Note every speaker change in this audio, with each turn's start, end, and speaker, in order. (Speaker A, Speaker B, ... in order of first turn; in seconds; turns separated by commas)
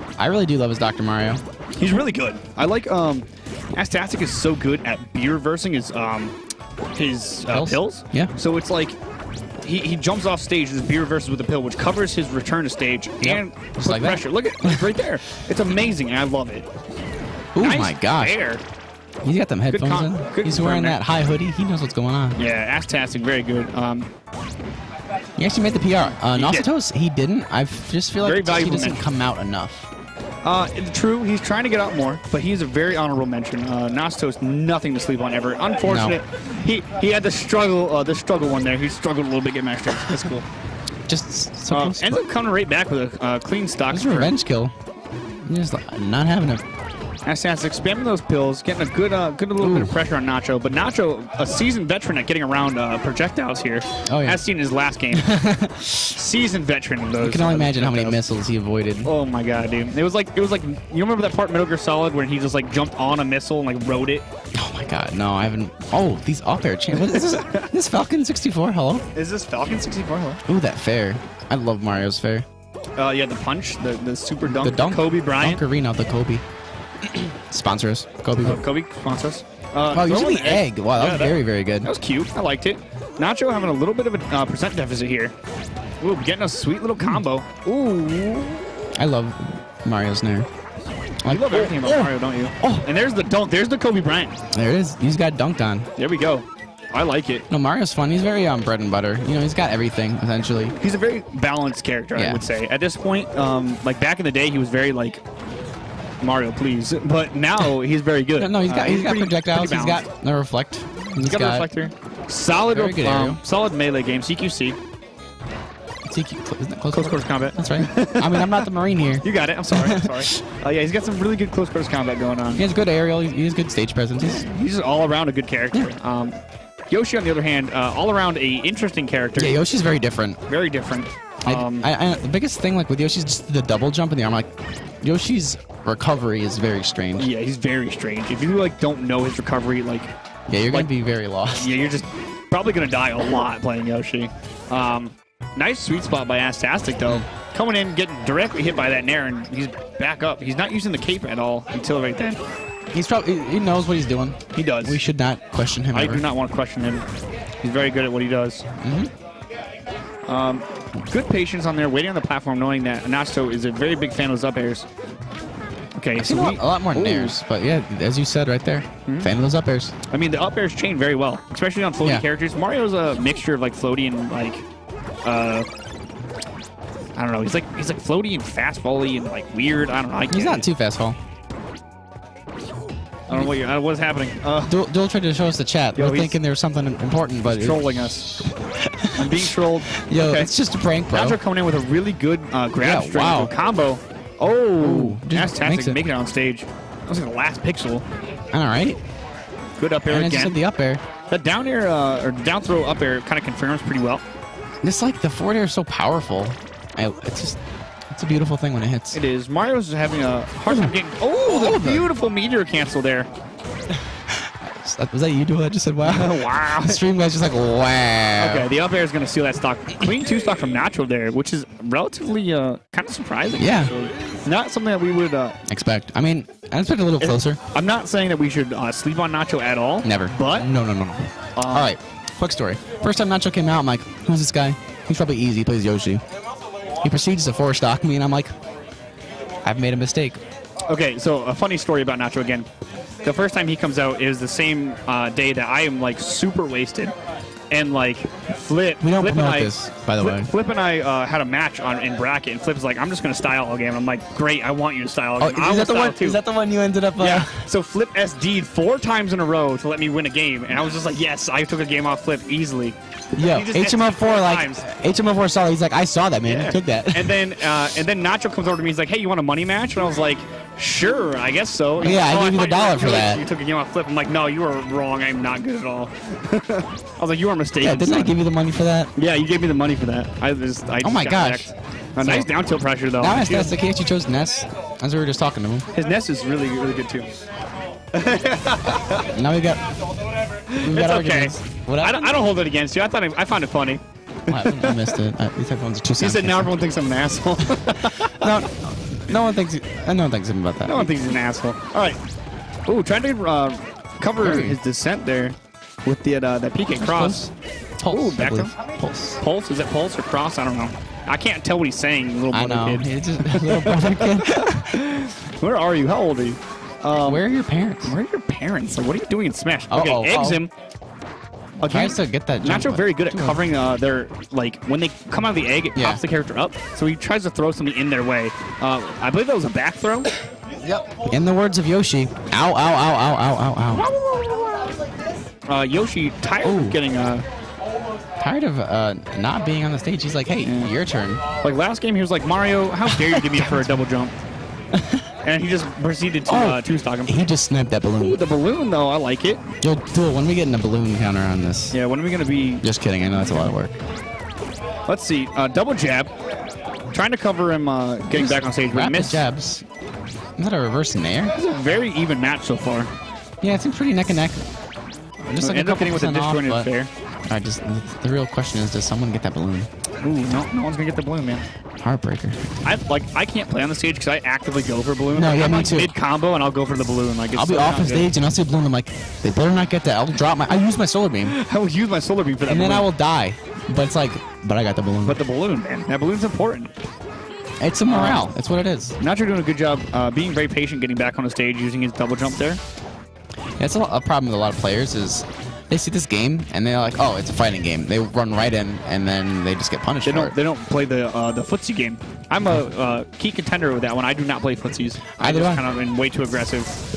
Speaker A: 0.2-1.4, Speaker B: 1.8-6.3, Speaker B: 7.0-9.0, Speaker A: 7.5-8.3, Speaker B: 9.6-16.7, Speaker A: 13.2-14.9, Speaker A: 17.6-18.4, Speaker B: 17.6-18.6, Speaker A: 19.2-22.4, Speaker B: 19.7-21.0, Speaker B: 22.4-24.1, Speaker A: 25.4-29.9, Speaker B: 26.2-26.7, Speaker B: 28.2-29.0, Speaker B: 30.4-40.5, Speaker A: 35.9-36.2, Speaker A: 41.1-42.2, Speaker B: 41.7-44.3, Speaker A: 43.9-44.7, Speaker A: 45.5-46.6, Speaker B: 47.3-55.3, Speaker A: 49.6-50.0, Speaker A: 54.1-54.5, Speaker A: 55.1-56.2, Speaker B: 56.1-58.2, Speaker A: 57.2-59.1, Speaker B: 59.0-64.3, Speaker A: 64.5-69.1, Speaker B: 66.9-67.7, Speaker B: 69.2-70.4, Speaker A: 70.5-72.5, Speaker B: 73.0-75.6, Speaker A: 74.5-76.4, Speaker A: 77.0-78.6, Speaker B: 78.4-85.3, Speaker A: 79.9-81.9, Speaker B: 86.0-88.7, Speaker A: 89.0-90.5, Speaker A: 91.2-92.9, Speaker B: 91.3-94.4, Speaker A: 94.5-95.9, Speaker B: 96.0-97.5, Speaker A: 97.5-100.8, Speaker B: 100.8-105.2, Speaker A: 102.2-102.5, Speaker B: 106.2-110.0, Speaker A: 108.4-111.7, Speaker B: 111.2-114.8, Speaker A: 112.7-113.4, Speaker A: 116.0-120.4, Speaker B: 116.9-118.7, Speaker B: 119.2-122.7, Speaker A: 122.5-124.5, Speaker B: 124.2-126.3, Speaker B: 126.9-129.6, Speaker A: 129.4-130.4, Speaker B: 130.5-131.9, Speaker A: 131.4-134.5, Speaker A: 135.0-137.3, Speaker B: 137.2-140.1, Speaker A: 140.5-141.8, Speaker B: 140.7-140.9, Speaker B: 141.6-152.4, Speaker A: 152.9-156.2, Speaker B: 154.5-155.0, Speaker B: 155.9-157.1, Speaker B: 157.6-158.6, Speaker A: 158.8-159.1, Speaker B: 160.3-164.9, Speaker B: 166.0-167.4, Speaker A: 166.2-169.9, Speaker B: 169.1-169.3, Speaker B: 170.1-174.7, Speaker B: 175.2-175.7, Speaker B: 177.2-180.7, Speaker A: 180.3-181.2, Speaker B: 183.3-184.7, Speaker A: 184.7-187.8, Speaker B: 185.9-186.4, Speaker B: 187.4-188.4, Speaker A: 188.4-189.5, Speaker B: 189.1-190.5, Speaker A: 190.1-191.4, Speaker B: 191.1-198.1, Speaker A: 192.8-193.5, Speaker A: 194.8-196.0, Speaker A: 198.5-199.0, Speaker B: 199.8-200.6, Speaker A: 200.1-201.0, Speaker B: 201.3-204.2, Speaker A: 204.8-207.6, Speaker A: 208.1-209.2, Speaker B: 209.1-213.3, Speaker A: 210.7-212.1, Speaker A: 214.1-218.7, Speaker B: 216.0-217.0, Speaker B: 218.4-225.6, Speaker A: 223.6-223.9, Speaker A: 225.7-227.6, Speaker B: 227.2-230.7, Speaker A: 230.0-236.2, Speaker B: 231.6-231.9, Speaker A: 237.0-238.5, Speaker A: 239.7-240.4, Speaker B: 240.9-242.7, Speaker B: 243.2-247.1, Speaker B: 247.7-256.4, Speaker A: 249.0-250.5, Speaker A: 255.4-257.6, Speaker B: 257.2-264.9, Speaker A: 263.4-267.4, Speaker B: 266.4-278.4, Speaker A: 272.0-273.4, Speaker A: 277.8-279.1, Speaker B: 279.1-283.8, Speaker A: 281.0-282.5, Speaker A: 283.2-285.9, Speaker B: 285.9-287.3, Speaker B: 288.1-289.3, Speaker A: 289.2-289.8, Speaker B: 290.5-295.2, Speaker A: 290.8-292.4, Speaker A: 294.5-296.7, Speaker B: 296.2-298.6, Speaker A: 298.2-301.3, Speaker B: 300.9-302.2, Speaker B: 302.9-307.5, Speaker A: 304.4-304.8, Speaker A: 307.0-309.4, Speaker B: 308.1-308.7, Speaker B: 309.4-317.4, Speaker A: 312.5-315.0, Speaker A: 317.2-318.1, Speaker B: 318.1-320.7, Speaker A: 319.9-320.6, Speaker B: 321.8-330.3, Speaker A: 321.8-323.6, Speaker A: 325.9-326.2, Speaker A: 330.8-334.1, Speaker B: 334.1-334.9, Speaker B: 335.7-337.4, Speaker A: 336.6-337.0, Speaker A: 338.4-341.4, Speaker B: 340.6-340.9, Speaker B: 341.6-344.4, Speaker A: 343.1-343.9, Speaker A: 344.9-345.3, Speaker B: 345.4-347.5, Speaker A: 346.5-348.4, Speaker B: 348.2-349.6, Speaker A: 349.8-351.9, Speaker B: 351.9-352.9, Speaker A: 352.8-353.9, Speaker B: 355.1-356.3, Speaker B: 357.1-359.5, Speaker A: 358.3-359.8, Speaker A: 360.6-361.5, Speaker B: 361.6-363.1, Speaker A: 363.6-364.6, Speaker A: 365.5-366.9, Speaker B: 365.6-367.1, Speaker A: 367.5-369.9, Speaker B: 370.2-371.6, Speaker A: 372.0-372.6, Speaker B: 372.8-378.3, Speaker A: 375.3-376.1, Speaker A: 377.6-381.6, Speaker B: 381.4-383.1, Speaker A: 382.7-385.4, Speaker B: 385.2-386.9, Speaker A: 387.8-389.2, Speaker B: 388.1-388.5, Speaker B: 389.2-392.8, Speaker A: 393.8-400.6, Speaker B: 400.2-406.9, Speaker A: 405.4-405.8